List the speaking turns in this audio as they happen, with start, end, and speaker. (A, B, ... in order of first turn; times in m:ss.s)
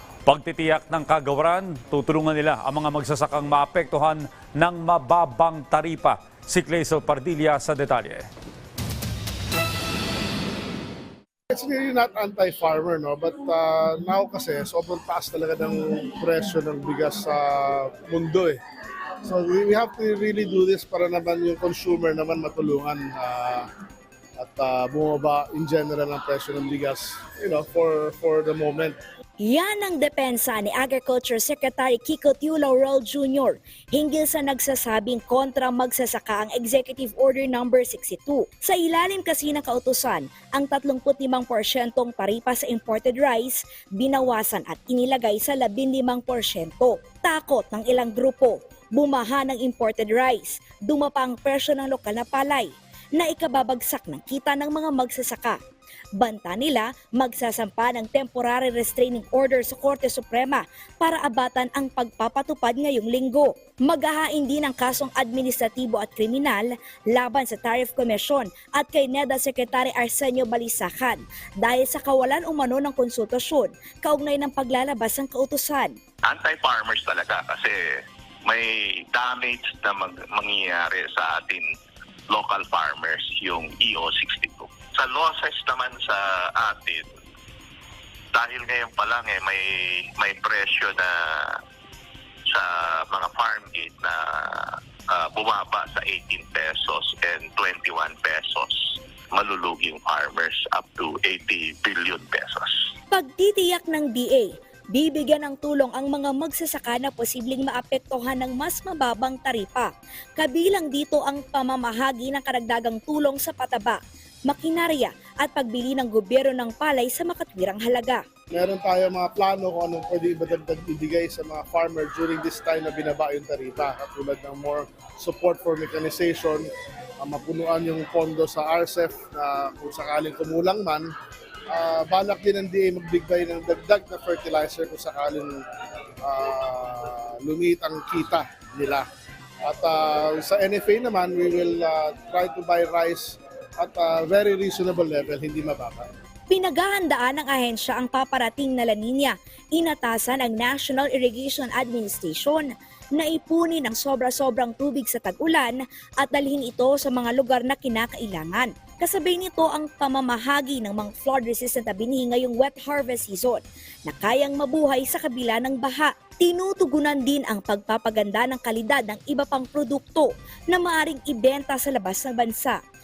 0:00.2-0:08.2 A
0:11.5-0:18.6 B
0:19.2-0:23.7 B
0:24.4-0:29.0 B
0:29.4-0:55.6 C
0:56.2-1:15.9 C
1:16.2-1:21.7 D
1:22.3-1:27.1 D
1:28.3-1:31.6 D
1:32.5-1:42.8 D
1:43.1-1:58.2 C
1:58.5-2:06.7 B
2:07.2-2:11.1 B
2:11.7-2:15.6 B
2:16.2-2:19.0 B
2:19.6-2:26.1 B
2:26.5-2:52.8 C